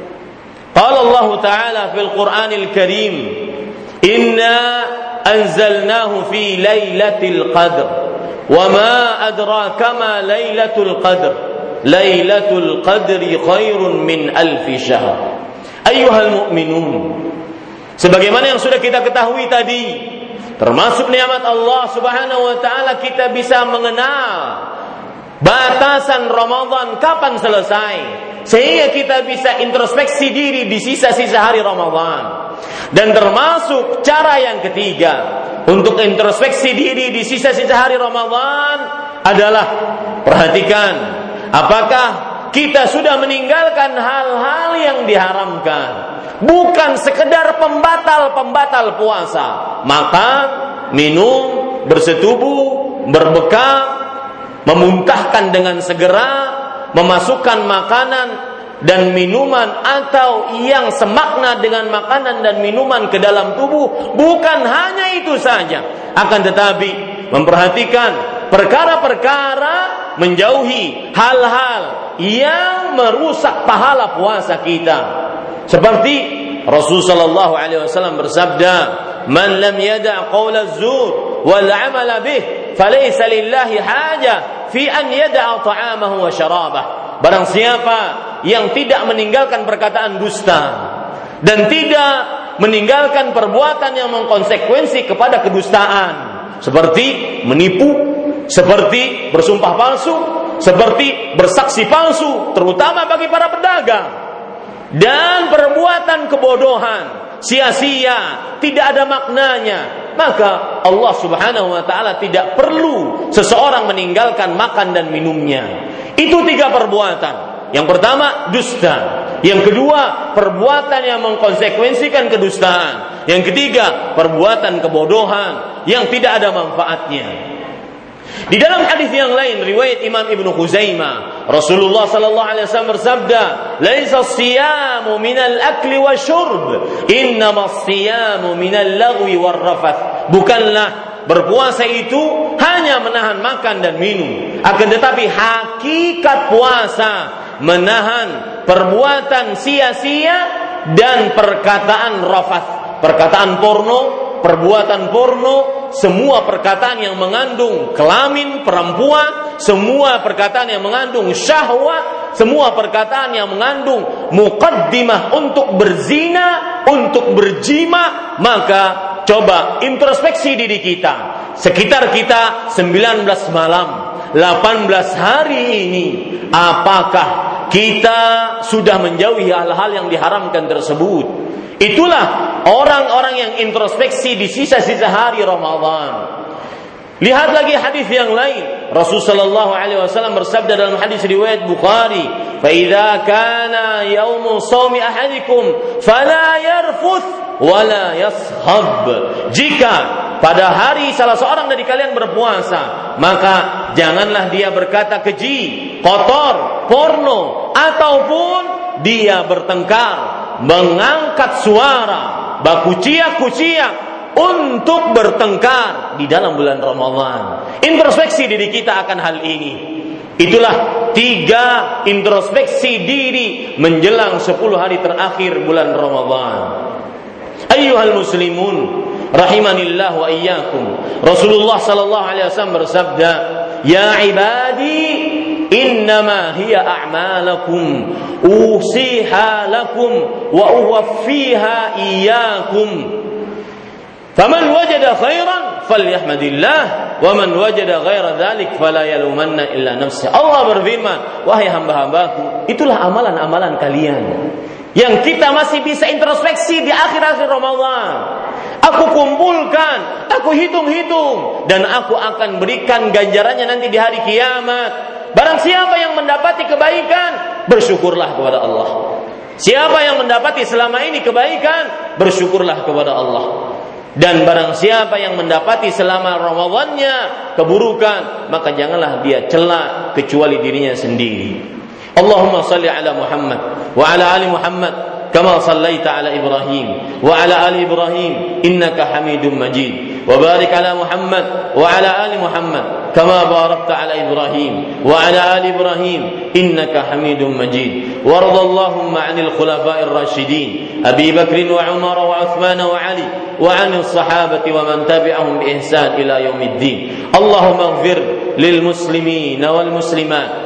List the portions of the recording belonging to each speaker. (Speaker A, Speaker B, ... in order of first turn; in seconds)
Speaker A: 0.7-8.0, 8.5-15.2, 15.8-17.3, 18.0-24.6, 25.4-32.3, 32.9-54.0, 54.6-75.1, 75.7-90.9, 91.4-104.1, 104.9-127.3, 128.5-186.2, 187.2-226.8, 227.7-243.2, 244.3-254.4, 254.9-258.3, 258.8-310.5